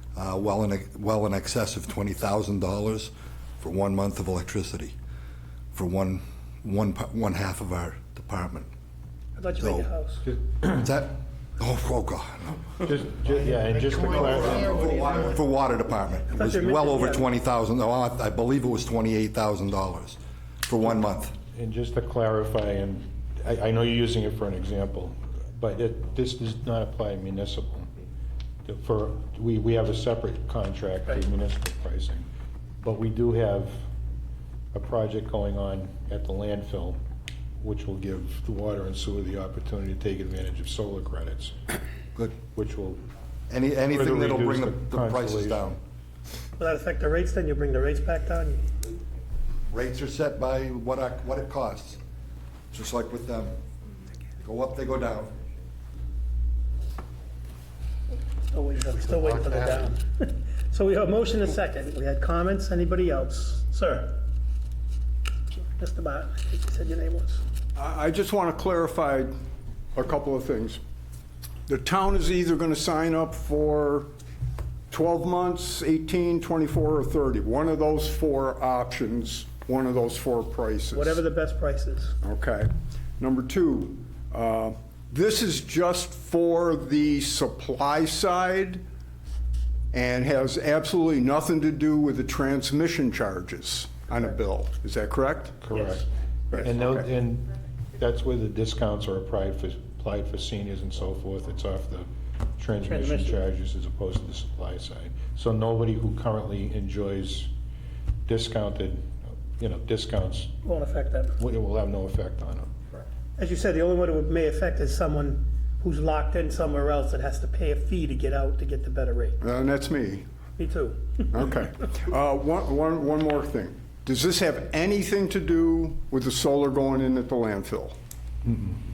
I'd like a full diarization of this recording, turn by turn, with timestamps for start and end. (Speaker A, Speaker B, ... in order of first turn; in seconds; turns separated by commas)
Speaker A: 0.1-4.9, Speaker A: 5.7-8.7, Speaker B: 9.3-10.2, Speaker A: 9.6-9.9, Speaker A: 10.6-12.7, Speaker C: 12.8-15.0, Speaker A: 13.9-21.3, Speaker B: 16.3-17.2, Speaker C: 21.5-27.9, Speaker C: 28.6-32.2, Speaker C: 32.8-33.8, Speaker C: 34.7-37.0, Speaker C: 37.6-41.5, Speaker C: 42.5-43.0, Speaker A: 43.5-45.8, Speaker C: 43.9-45.7, Speaker B: 46.6-48.6, Speaker A: 49.7-52.0, Speaker A: 52.7-53.6, Speaker A: 54.4-55.3, Speaker B: 58.5-64.2, Speaker A: 59.0-59.9, Speaker B: 65.5-67.4, Speaker D: 67.7-69.3, Speaker D: 69.9-70.8, Speaker D: 71.7-74.1, Speaker D: 74.9-81.2, Speaker B: 80.9-82.2, Speaker D: 82.2-88.8, Speaker D: 89.9-95.8, Speaker C: 95.6-96.0, Speaker D: 96.5-97.0, Speaker C: 96.6-102.1, Speaker C: 102.6-107.5, Speaker B: 102.9-103.4, Speaker C: 108.3-110.5, Speaker B: 110.6-111.3, Speaker C: 111.4-112.7, Speaker B: 113.4-119.4, Speaker D: 119.4-120.2, Speaker B: 120.6-121.2, Speaker D: 121.3-128.0, Speaker C: 128.4-128.8